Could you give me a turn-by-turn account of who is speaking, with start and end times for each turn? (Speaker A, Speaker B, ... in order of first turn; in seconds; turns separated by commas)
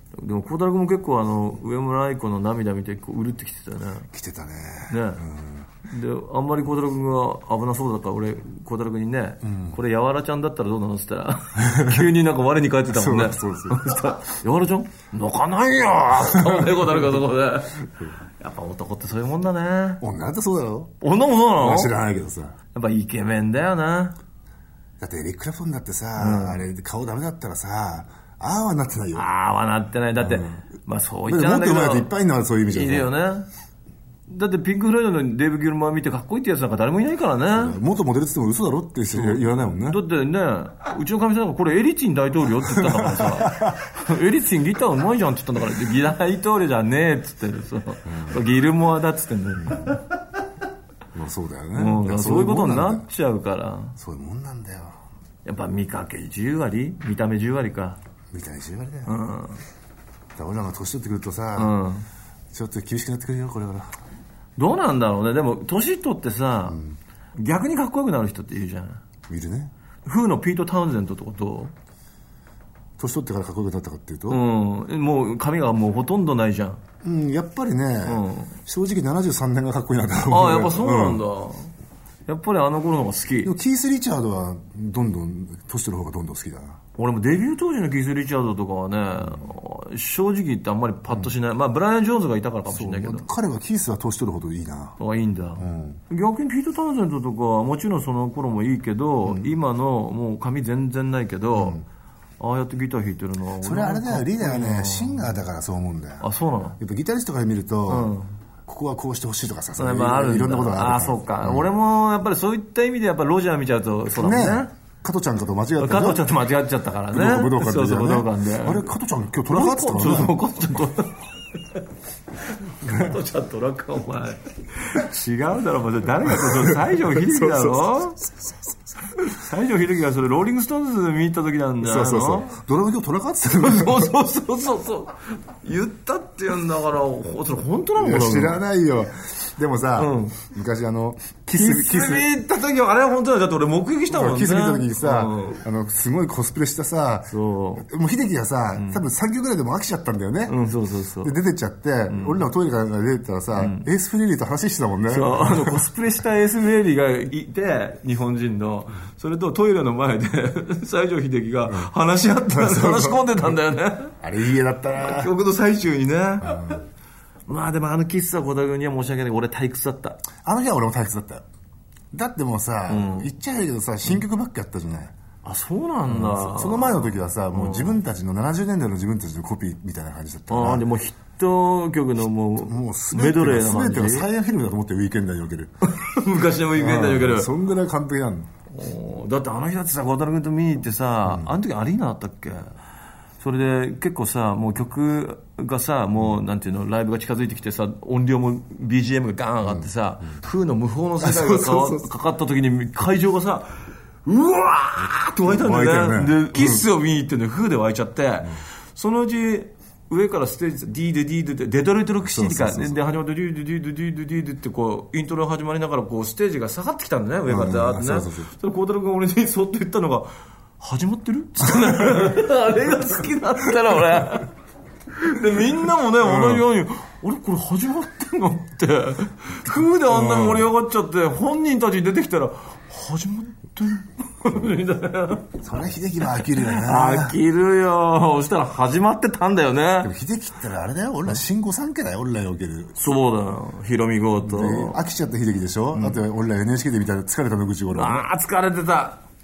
Speaker A: 0.1-4.1, Speaker B: 4.1-5.7, Speaker A: 4.9-5.2, Speaker A: 5.9-20.0, Speaker B: 9.4-9.8, Speaker B: 11.6-12.0, Speaker B: 12.9-13.9, Speaker B: 16.3-16.8, Speaker B: 20.0-20.9, Speaker A: 21.0-21.9, Speaker B: 21.6-22.6, Speaker A: 22.7-24.2, Speaker B: 25.0-29.3, Speaker A: 26.2-26.6, Speaker A: 29.1-32.1, Speaker B: 30.1-30.6, Speaker B: 31.2-33.1, Speaker A: 32.7-33.5, Speaker A: 34.3-37.8, Speaker B: 37.5-40.0, Speaker A: 39.1-50.0, Speaker B: 42.7-43.7, Speaker B: 48.1-48.4, Speaker B: 49.6-50.0, Speaker B: 51.1-53.1, Speaker A: 51.7-54.0, Speaker B: 54.0-55.0, Speaker A: 55.4-58.0, Speaker B: 58.3-59.1, Speaker A: 59.0-59.6, Speaker B: 60.4-61.7, Speaker A: 61.5-62.0, Speaker B: 62.5-63.9, Speaker A: 64.6-66.8, Speaker B: 66.7-67.0, Speaker A: 67.4-69.0, Speaker B: 69.3-69.7, Speaker A: 70.0-71.7, Speaker B: 73.0-74.4, Speaker A: 74.3-76.8, Speaker B: 77.0-81.2, Speaker A: 78.0-78.5, Speaker A: 80.3-81.7, Speaker A: 82.3-83.5, Speaker B: 83.4-86.8, Speaker A: 87.0-93.2, Speaker B: 89.2-89.5, Speaker B: 92.7-95.0, Speaker A: 95.0-101.8, Speaker B: 95.6-96.0, Speaker B: 99.2-99.5, Speaker B: 101.5-101.8, Speaker A: 102.4-105.3, Speaker B: 103.6-106.2, Speaker A: 106.2-106.8, Speaker B: 106.8-108.1, Speaker A: 107.9-108.3, Speaker B: 108.7-111.7, Speaker A: 109.8-114.7, Speaker B: 114.1-116.3, Speaker A: 115.8-118.9, Speaker B: 117.1-120.4, Speaker A: 119.5-121.2, Speaker A: 122.8-128.2, Speaker B: 126.3-127.9, Speaker A: 129.2-132.5, Speaker B: 131.8-134.1, Speaker A: 133.5-138.6, Speaker B: 138.0-142.3, Speaker A: 140.0-140.4, Speaker A: 141.5-145.6, Speaker B: 144.1-150.6, Speaker A: 147.3-147.9, Speaker A: 150.5-151.3, Speaker B: 151.2-155.8, Speaker A: 152.1-152.4, Speaker A: 153.6-153.8, Speaker A: 155.1-164.2, Speaker B: 161.7-161.9, Speaker B: 162.5-163.5, Speaker B: 164.2-165.3, Speaker A: 164.9-166.8, Speaker B: 166.4-166.8, Speaker A: 167.5-170.2, Speaker B: 170.4-171.4, Speaker B: 172.1-175.1, Speaker A: 172.9-173.3, Speaker A: 175.4-178.0, Speaker B: 176.1-180.8, Speaker A: 180.5-184.3, Speaker B: 182.6-185.7, Speaker A: 185.9-187.5, Speaker B: 186.7-188.5, Speaker A: 188.7-192.8, Speaker B: 191.2-191.6, Speaker A: 193.4-224.5, Speaker B: 199.6-199.9, Speaker B: 201.2-202.1, Speaker B: 205.4-206.8, Speaker B: 212.2-213.0, Speaker B: 217.5-218.5, Speaker A: 225.1-235.6, Speaker B: 226.2-226.6, Speaker B: 230.1-230.7, Speaker B: 235.6-237.4, Speaker A: 236.4-240.1, Speaker B: 240.0-243.0, Speaker A: 243.0-245.0, Speaker B: 244.4-248.3, Speaker A: 247.9-249.2